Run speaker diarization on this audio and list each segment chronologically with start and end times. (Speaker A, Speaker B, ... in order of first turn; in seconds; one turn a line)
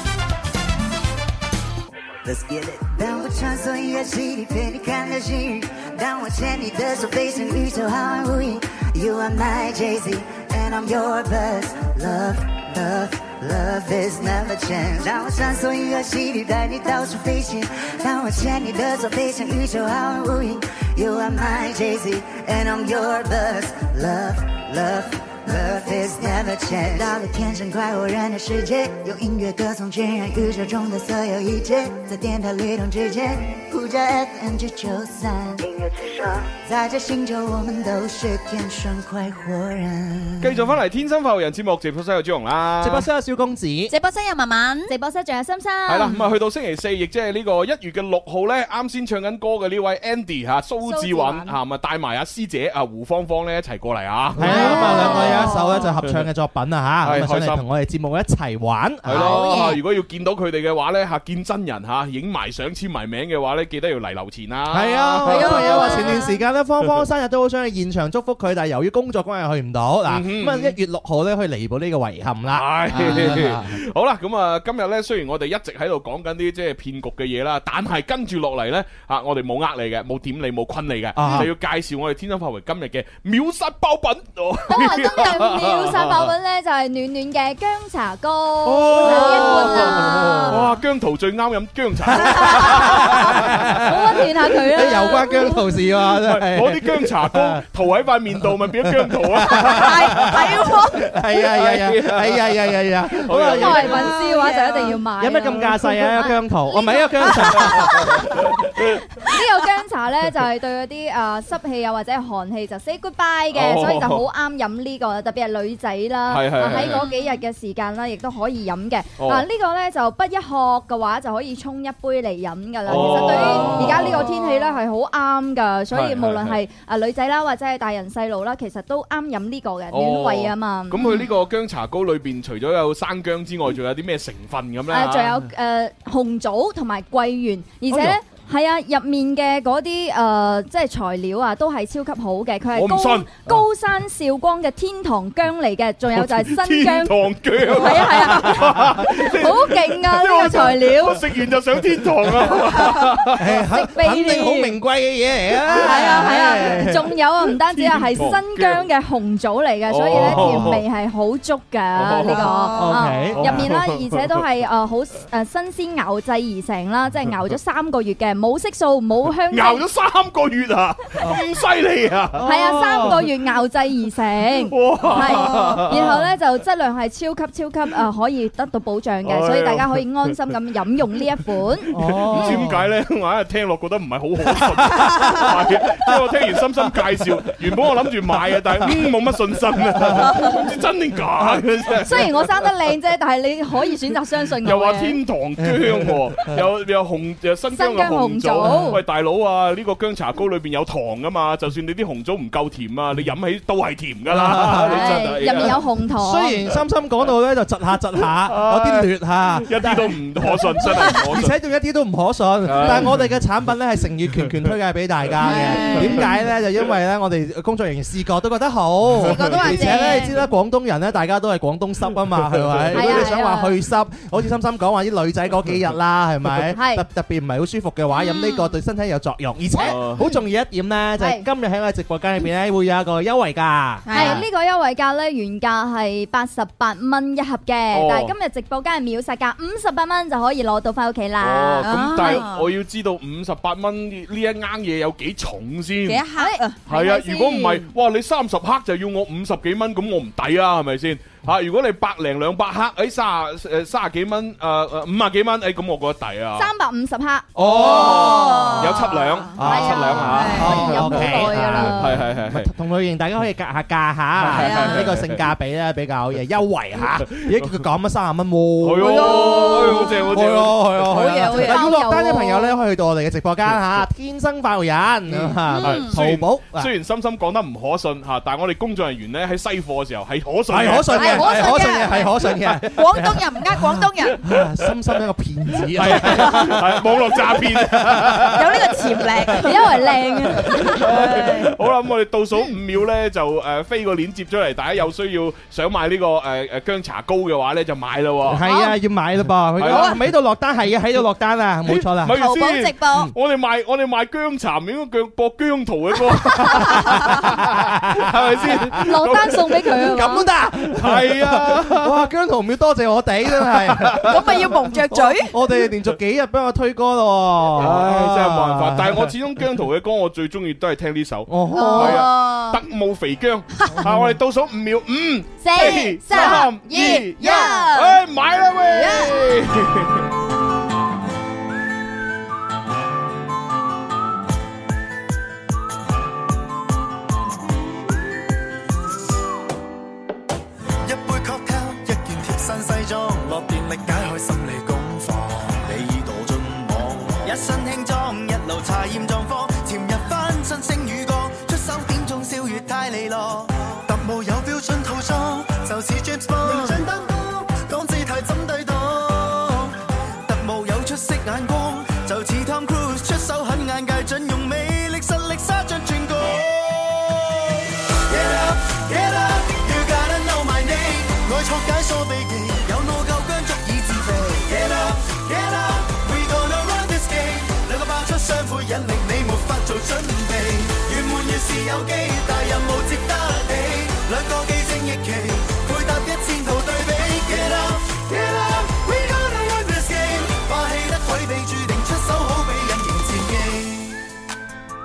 Speaker A: 2.2-40.5
Speaker B: 40.4-43.1
Speaker C: 42.8-43.9
Speaker D: 43.9-44.9
Speaker E: 44.9-46.1
Speaker B: 45.9-55.5
Speaker E: 50.8-51.5
Speaker C: 54.4-59.7
Speaker E: 54.5-55.8
Speaker D: 54.5-55.8
Speaker B: 57.0-57.6
Speaker B: 59.0-66.2
Speaker D: 59.1-59.8
Speaker C: 64.7-73.7
Speaker D: 65.3-66.2
Speaker B: 70.0-70.8
Speaker B: 72.5-86.3
Speaker C: 81.1-81.5
Speaker E: 84.7-90.7
Speaker B: 88.6-93.8
Speaker C: 88.9-90.6
Speaker C: 92.2-97.6
Speaker E: 92.4-95.6
Speaker B: 96.1-100.7
Speaker C: 98.4-104.1
Speaker D: 99.6-101.1
Speaker B: 101.3-104.2
Speaker E: 103.5-108.3
Speaker D: 103.9-105.0
Speaker C: 105.2-108.3
Speaker E: 109.2-131.0
Speaker B: 113.5-114.2
Speaker B: 116.3-117.1
Speaker D: 116.6-117.4
Speaker B: 119.2-119.5
Speaker B: 122.8-124.3
Speaker D: 123.2-124.3
Speaker B: 125.9-126.6
Speaker B: 129.9-135.4
Speaker D: 131.0-131.3
Speaker E: 134.9-151.3
Speaker B: 142.7-143.6
Speaker B: 146.1-153.6
Speaker C: 153.3-157.1
Speaker E: 153.7-154.8
Speaker E: 155.7-169.8
Speaker D: 155.9-156.7
Speaker B: 157.7-158.8
Speaker B: 159.9-160.8
Speaker C: 160.1-160.8
Speaker B: 161.9-162.5
Speaker D: 162.2-163.1
Speaker C: 162.7-163.6
Speaker B: 163.3-164.4
Speaker B: 169.5-172.5
Speaker C: 172.3-173.3
Speaker E: 172.4-181.9
Speaker B: 174.7-176.2
Speaker D: 175.3-175.8
Speaker B: 179.2-180.4
Speaker C: 181.9-182.9
Speaker B: 182.1-192.6
Speaker C: 184.9-186.2
Speaker C: 188.5-189.0
Speaker C: 189.9-190.6
Speaker E: 192.0-195.2
Speaker B: 194.6-205.8
Speaker C: 195.6-196.6
Speaker E: 197.7-199.0
Speaker C: 198.6-199.0
Speaker C: 204.3-205.3
Speaker E: 204.7-206.6
Speaker C: 206.1-234.4
Speaker B: 208.4-211.6
Speaker B: 212.6-213.3
Speaker D: 215.4-216.3
Speaker E: 215.5-216.4
Speaker B: 215.9-216.3
Speaker D: 219.2-220.4
Speaker B: 219.2-219.7
Speaker E: 219.8-220.1
Speaker B: 222.6-223.2
Speaker E: 222.9-223.8
Speaker E: 226.7-227.0
Speaker D: 228.1-228.7
Speaker B: 229.8-230.2
Speaker E: 229.8-230.4
Speaker E: 231.2-231.4
Speaker D: 234.1-234.4
Speaker E: 234.1-242.4
Speaker B: 237.9-238.3
Speaker B: 241.4-246.2
Speaker D: 241.8-242.7
Speaker D: 246.1-246.8
Speaker E: 246.3-247.8
Speaker B: 246.9-256.7
Speaker E: 256.6-257.5
Speaker C: 257.6-259.0
Speaker B: 257.6-262.7
Speaker D: 257.8-259.6
Speaker C: 259.6-276.9
Speaker E: 259.6-262.3
Speaker D: 260.3-261.2
Speaker B: 264.4-265.4
Speaker D: 264.5-265.1
Speaker B: 267.4-267.8
Speaker B: 268.8-271.4
Speaker D: 269.0-270.1
Speaker D: 271.0-272.0
Speaker E: 271.4-272.8
Speaker B: 275.3-281.8
Speaker D: 275.7-276.1
Speaker C: 280.7-288.8
Speaker D: 281.1-284.4
Speaker E: 281.6-282.2
Speaker B: 285.9-288.6
Speaker D: 286.2-286.7
Speaker D: 288.5-290.1
Speaker B: 289.5-290.0
Speaker E: 289.6-291.0
Speaker B: 290.6-298.6
Speaker D: 290.7-291.7
Speaker C: 298.4-302.4
Speaker B: 299.8-300.3
Speaker D: 299.9-300.1
Speaker B: 301.9-310.1
Speaker D: 302.3-303.3
Speaker C: 306.6-309.0
Speaker E: 309.0-310.5
Speaker C: 310.0-319.4
Speaker B: 310.9-312.3
Speaker B: 313.6-314.6
Speaker D: 314.2-315.5
Speaker B: 317.8-330.2
Speaker C: 321.5-322.3
Speaker D: 321.7-322.8
Speaker C: 324.0-324.3
Speaker E: 325.7-327.9
Speaker D: 325.7-328.2
Speaker D: 328.9-329.3
Speaker F: 341.0-394.2